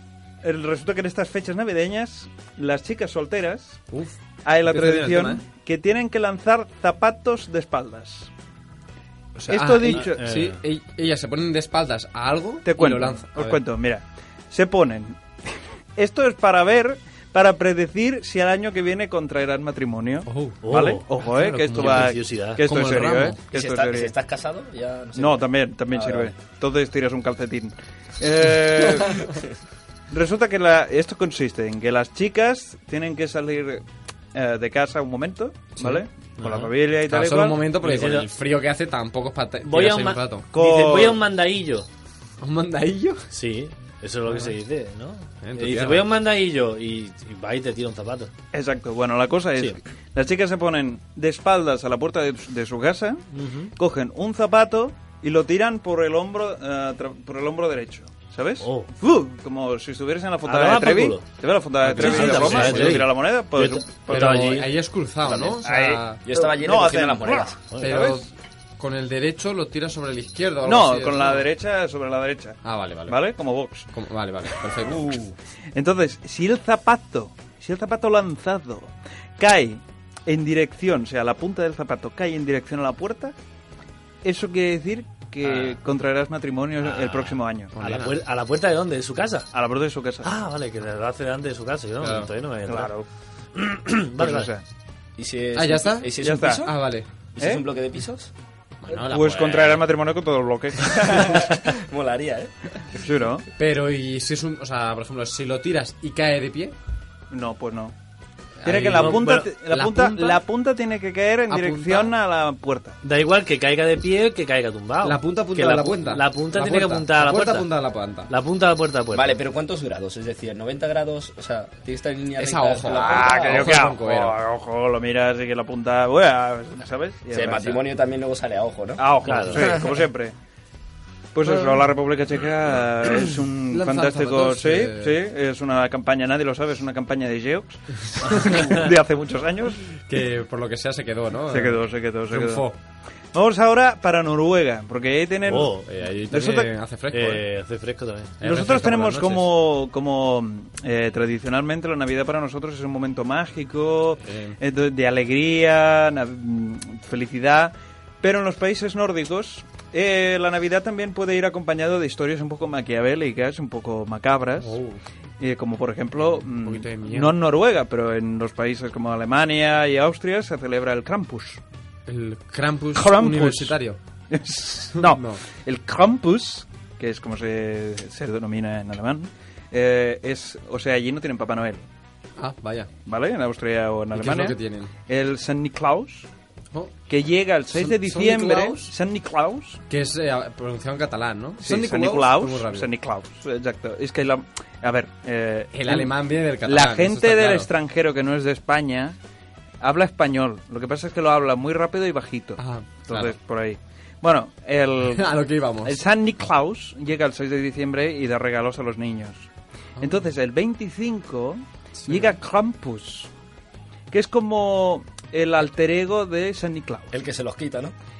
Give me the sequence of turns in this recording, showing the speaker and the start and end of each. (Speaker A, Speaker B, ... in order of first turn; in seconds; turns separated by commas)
Speaker A: 0.4-3.8, Speaker B: 3.9-5.4, Speaker A: 4.4-8.3, Speaker B: 9.3-13.6, Speaker A: 9.5-10.2, Speaker C: 9.9-10.6, Speaker A: 12.6-15.2, Speaker A: 16.0-24.1, Speaker B: 20.2-23.4, Speaker C: 20.6-21.0, Speaker C: 21.7-22.6, Speaker D: 23.5-26.3, Speaker A: 25.1-29.3, Speaker A: 30.1-33.8, Speaker A: 34.3-37.6, Speaker B: 35.8-36.0, Speaker C: 36.4-36.7, Speaker B: 37.1-40.5, Speaker C: 37.8-38.3, Speaker C: 39.6-41.9, Speaker A: 40.5-41.2, Speaker B: 42.4-43.3, Speaker C: 43.3-48.3, Speaker B: 45.4-46.1, Speaker A: 48.5-53.2, Speaker C: 53.3-53.7, Speaker A: 53.8-64.5, Speaker C: 58.6-58.9, Speaker C: 60.4-61.2, Speaker B: 61.8-63.1, Speaker C: 61.9-64.7, Speaker B: 64.1-66.2, Speaker D: 65.3-65.5, Speaker A: 65.6-68.2, Speaker D: 66.2-67.5, Speaker C: 67.7-68.0, Speaker B: 67.8-71.5, Speaker A: 70.6-73.9, Speaker B: 72.6-73.2, Speaker B: 73.9-75.2, Speaker D: 74.8-75.3, Speaker A: 75.7-83.3, Speaker A: 84.2-87.7, Speaker C: 85.4-85.8, Speaker C: 86.8-89.5, Speaker B: 87.7-88.2, Speaker A: 89.5-90.3, Speaker C: 90.2-92.9, Speaker B: 92.0-92.3, Speaker A: 92.7-93.0, Speaker C: 93.5-94.5, Speaker A: 94.2-94.6, Speaker D: 95.2-96.7, Speaker B: 95.5-97.1, Speaker A: 96.2-96.7, Speaker D: 97.4-98.3, Speaker A: 97.4-97.6, Speaker B: 98.8-99.7, Speaker A: 99.0-101.4, Speaker C: 99.2-99.8, Speaker D: 100.8-102.7, Speaker A: 103.0-103.5, Speaker B: 103.6-106.7, Speaker A: 107.3-107.9, Speaker B: 108.6-110.4, Speaker A: 108.6-113.0, Speaker C: 108.9-109.5, Speaker B: 111.5-112.1, Speaker C: 113.0-117.7, Speaker B: 115.0-118.3, Speaker C: 118.3-119.3, Speaker D: 119.1-123.8, Speaker B: 122.3-124.4, Speaker A: 122.9-127.8, Speaker D: 127.3-129.9, Speaker A: 129.0-130.3, Speaker C: 129.2-129.7, Speaker A: 131.3-139.9, Speaker B: 131.4-131.8, Speaker B: 133.7-135.2, Speaker C: 138.4-138.8, Speaker B: 140.0-142.7, Speaker A: 141.5-142.7, Speaker A: 143.3-145.8, Speaker C: 145.5-145.9, Speaker B: 145.8-147.4, Speaker A: 146.3-146.7, Speaker C: 147.1-148.4, Speaker B: 148.4-149.4, Speaker A: 148.4-164.8, Speaker B: 154.2-154.6, Speaker B: 164.6-165.0, Speaker A: 165.4-171.6, Speaker B: 166.5-167.4, Speaker B: 172.1-174.0, Speaker A: 172.9-173.8, Speaker A: 174.3-181.8, Speaker B: 174.9-175.4, Speaker B: 182.4-182.9, Speaker A: 183.1-184.6, Speaker B: 184.1-184.9, Speaker A: 185.1-186.3, Speaker A: 187.1-189.8, Speaker B: 187.7-188.9, Speaker B: 189.9-192.9, Speaker A: 191.6-199.2, Speaker B: 195.7-197.7, Speaker A: 199.8-205.3, Speaker B: 202.6-203.3, Speaker B: 205.0-206.0, Speaker A: 205.8-209.5, Speaker B: 210.0-210.3, Speaker A: 210.0-213.3, Speaker B: 212.0-212.3, Speaker A: 214.1-217.1, Speaker D: 217.1-217.9